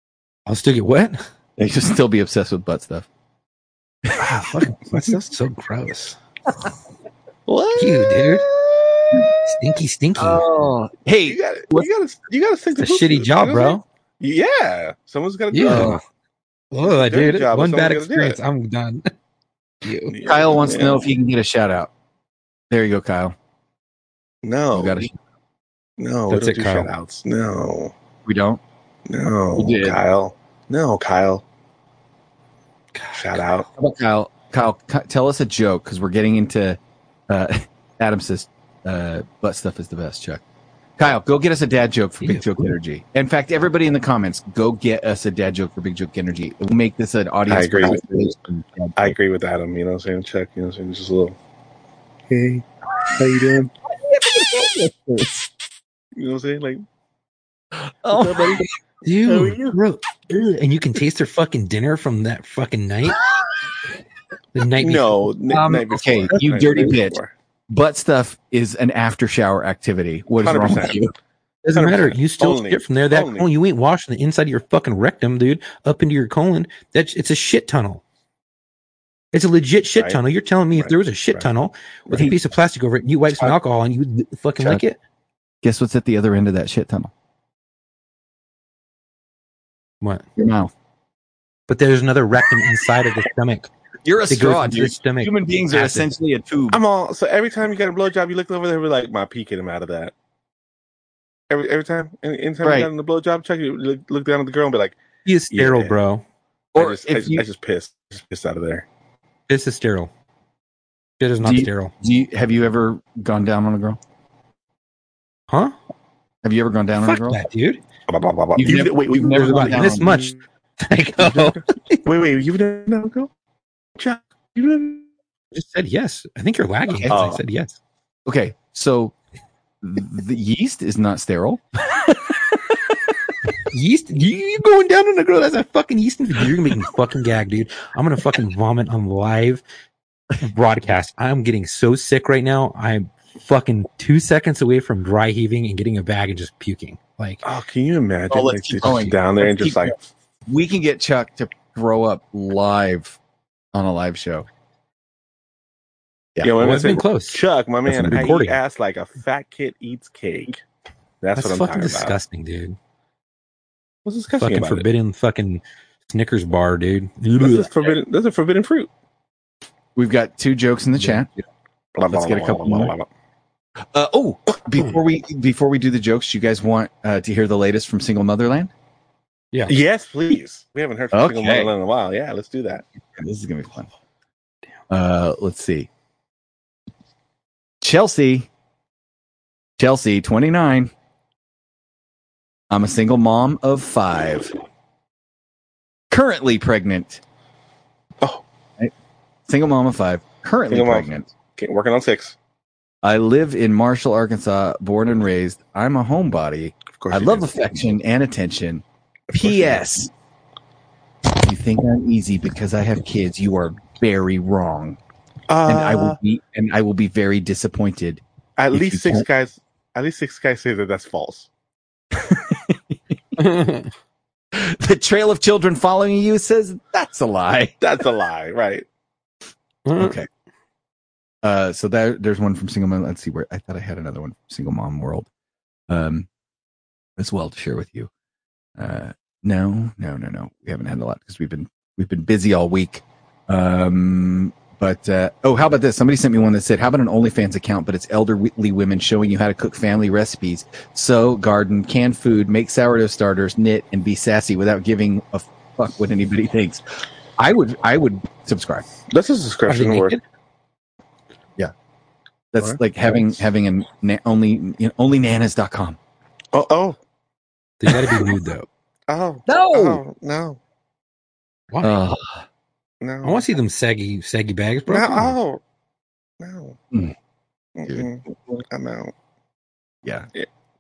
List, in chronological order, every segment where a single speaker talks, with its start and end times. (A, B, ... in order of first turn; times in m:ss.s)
0:00.5-0:01.2 A
0:01.6-0:03.1 B
0:04.1-0:04.4 B
0:04.2-0:06.2 A
0:07.5-0:09.3 C
0:07.8-0:08.5 A
0:09.5-0:10.4 A
0:10.2-0:11.9 B
0:11.3-0:16.0 C
0:12.8-0:13.8 A
0:15.5-0:16.0 A
0:15.6-0:16.0 B
0:16.7-0:19.1 A
0:16.8-0:18.4 C
0:19.8-0:20.1 A
0:20.1-0:21.0 C
0:20.2-0:21.9 B
0:22.7-0:23.4 B
0:24.4-0:25.1 C
0:24.7-0:25.2 B
0:26.0-0:27.9 C
0:26.3-0:26.9 A
0:28.2-0:28.6 B
0:29.1-0:31.4 C
0:29.6-0:30.0 B
0:33.0-0:33.4 A
0:33.1-0:33.7 C
0:33.8-0:40.4 B
0:41.0-0:49.2 B
0:42.2-0:42.6 A
0:47.5-0:48.0 C
0:49.0-0:51.4 C
0:52.3-0:53.7 C
0:53.9-0:55.5 B
0:56.2-0:56.8 C
0:57.8-0:58.7 B
0:58.1-0:58.7 C
0:59.0-1:03.2 A
0:59.2-0:59.8 C
1:04.6-1:05.3 A
1:04.8-1:07.3 C
1:05.5-1:07.2 B
1:07.7-1:11.1 B
1:10.4-1:11.0 C
1:11.7-1:18.0 A
1:11.8-1:13.5 C
1:19.3-1:25.0 A
1:20.8-1:21.5 C
1:25.6-1:27.1 B
1:30.0-1:30.3 A
1:30.4-1:30.7 B
1:31.7-1:33.7 A
1:34.0-1:36.8 B
1:34.3-1:36.1 A
1:36.7-1:40.1 C
1:41.5-1:45.0 C
1:42.6-1:42.9 B
1:45.3-1:46.2 A
1:45.5-1:46.0 C
1:46.7-1:47.4 B
1:46.8-1:48.9 C
1:49.5-1:50.1 A
1:51.2-1:51.9 A
1:51.4-1:54.0 B
1:55.5-1:55.8 A
1:56.4-1:57.4 B
1:57.0-1:57.8 A
1:58.1-2:00.3 C
1:58.6-2:00.2 B
1:59.3-2:02.0 A
2:01.2-2:03.3 C
2:04.0-2:05.1 C
2:05.5-2:07.8 A
2:07.1-2:07.4 C
2:08.3-2:09.1 B
2:09.8-2:13.0 B
2:13.7-2:19.6 A
2:20.4-2:27.4 A
2:27.4-2:30.0 C
2:28.3-2:29.9 B
2:30.5-2:33.2 B
2:33.7-2:34.5 B
2:36.4-2:40.6 C
2:36.6-2:37.4 A
2:37.9-2:38.3 B
2:38.0-2:38.6 A
2:41.2-2:42.2 C
2:41.4-2:42.8 A
2:44.1-2:44.9 C
2:44.4-2:47.7 A
2:47.4-2:48.9 C
2:50.0-2:51.3 B
2:52.0-2:53.1 C
2:52.1-2:52.9 B
2:53.9-2:58.7 B
2:59.7-3:02.8 C
3:01.1-3:01.7 B
3:03.2-3:03.9 B
3:04.9-3:05.9 B
3:07.8-3:08.5 B
3:09.8-3:10.9 B
3:12.7-3:14.5 B
3:16.1-3:17.2 B
3:19.5-3:21.3 B
3:20.7-3:22.4 C
3:23.0-3:30.1 B
3:26.9-3:27.4 C
3:29.3-3:29.8 C
3:31.3-3:35.0 B
3:35.5-3:36.2 C
3:35.7-3:38.2 B
3:38.6-3:41.5 C
3:38.7-3:39.3 B
3:42.1-3:43.0 B
3:43.4-3:43.9 A
3:44.5-3:47.8 B
3:47.8-3:48.9 C
3:49.8-3:50.2 A
3:50.0-3:50.3 B
3:51.4-3:55.3 B
3:55.9-3:56.3 B
3:57.2-3:58.1 B
3:58.8-4:18.9 B
4:19.1-4:20.2 C
4:19.7-4:20.2 A
4:22.5-4:26.0 B
4:26.5-4:27.0 C
4:27.8-4:28.7 A
4:27.9-4:28.2 B
4:29.1-4:30.6 C
4:29.5-4:30.0 B
4:31.7-4:32.0 A
4:31.8-4:32.4 B
4:33.0-4:33.5 C
4:33.2-4:35.4 A
4:34.9-4:35.6 C
4:36.4-4:36.8 C
4:37.8-4:39.1 C